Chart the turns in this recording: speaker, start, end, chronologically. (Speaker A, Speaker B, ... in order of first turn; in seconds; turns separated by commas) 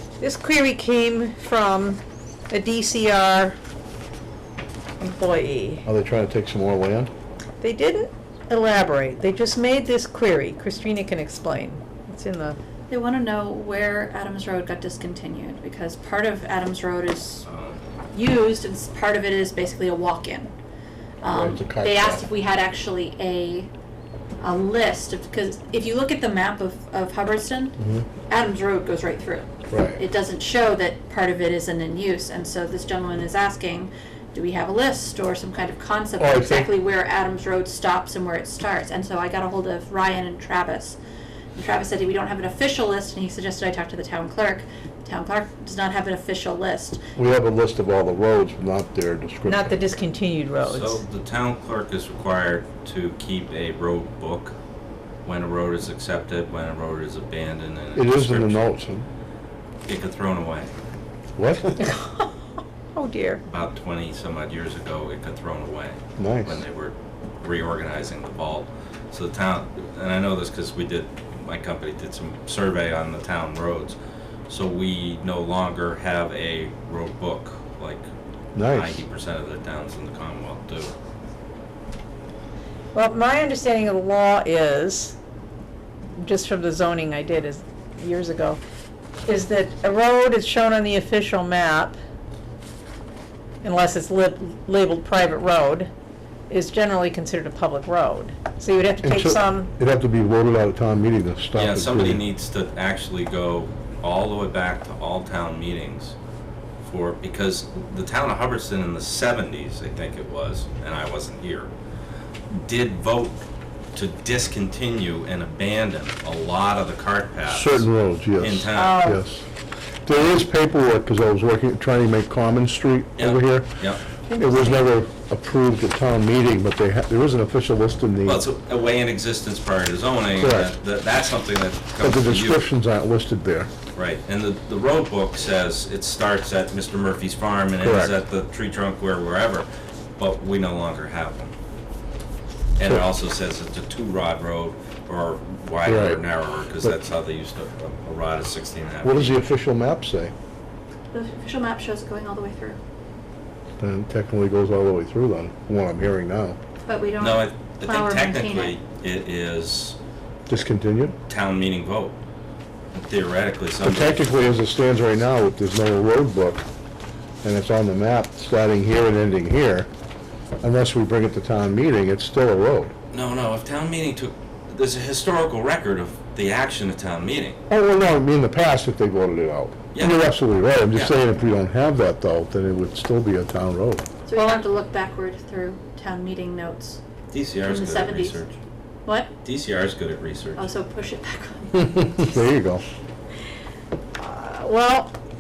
Speaker A: 0.2-3.6, Speaker A: 5.0-5.8, Speaker B: 5.9-7.1, Speaker A: 7.6-12.6, Speaker C: 12.9-17.4, Speaker D: 17.5-17.8, Speaker C: 18.1-20.5, Speaker C: 21.2-23.7, Speaker B: 21.2-22.3, Speaker C: 24.4-27.8, Speaker B: 27.8-28.1, Speaker C: 28.3-41.0, Speaker B: 29.7-30.0, Speaker B: 36.2-36.7, Speaker C: 41.6-47.0, Speaker B: 47.1-49.8, Speaker A: 49.5-51.0, Speaker D: 50.6-54.5, Speaker D: 55.2-58.7, Speaker B: 58.0-59.1, Speaker D: 59.9-60.7, Speaker B: 61.4-61.8, Speaker A: 61.8-62.4, Speaker A: 62.9-63.4, Speaker D: 63.5-74.0, Speaker B: 66.2-66.6, Speaker D: 74.5-78.1, Speaker B: 78.5-79.0, Speaker D: 78.7-80.9, Speaker A: 82.9-85.2, Speaker A: 86.2-88.6, Speaker A: 89.3-92.0, Speaker A: 93.6-95.9, Speaker A: 96.5-99.7, Speaker B: 99.0-102.2, Speaker D: 101.5-106.2, Speaker D: 106.8-111.7, Speaker D: 112.5-113.4, Speaker D: 113.9-119.0, Speaker B: 117.5-119.5, Speaker A: 118.7-119.2, Speaker B: 120.0-123.7, Speaker D: 123.2-124.0, Speaker A: 124.3-124.9, Speaker B: 124.4-128.4, Speaker D: 128.2-132.7, Speaker B: 130.4-130.7, Speaker B: 132.0-133.7, Speaker D: 133.9-141.5, Speaker B: 137.8-138.2, Speaker D: 142.8-149.4, Speaker B: 145.8-146.2, Speaker B: 149.0-150.3, Speaker C: 151.1-152.8, Speaker B: 153.8-156.6, Speaker C: 156.9-158.8, Speaker D: 157.2-160.0, Speaker B: 160.5-161.2, Speaker D: 161.3-162.2, Speaker D: 162.9-164.3, Speaker B: 163.8-166.7, Speaker B: 167.4-169.9, Speaker B: 170.6-172.9, Speaker D: 173.1-177.6, Speaker B: 177.7-184.1, Speaker D: 179.9-180.3, Speaker D: 180.9-181.2, Speaker C: 184.3-187.0, Speaker D: 187.3-188.6, Speaker C: 187.6-188.4, Speaker C: 189.1-189.3, Speaker D: 189.4-190.7, Speaker C: 190.6-192.1, Speaker B: 191.8-192.8, Speaker A: 194.2-195.1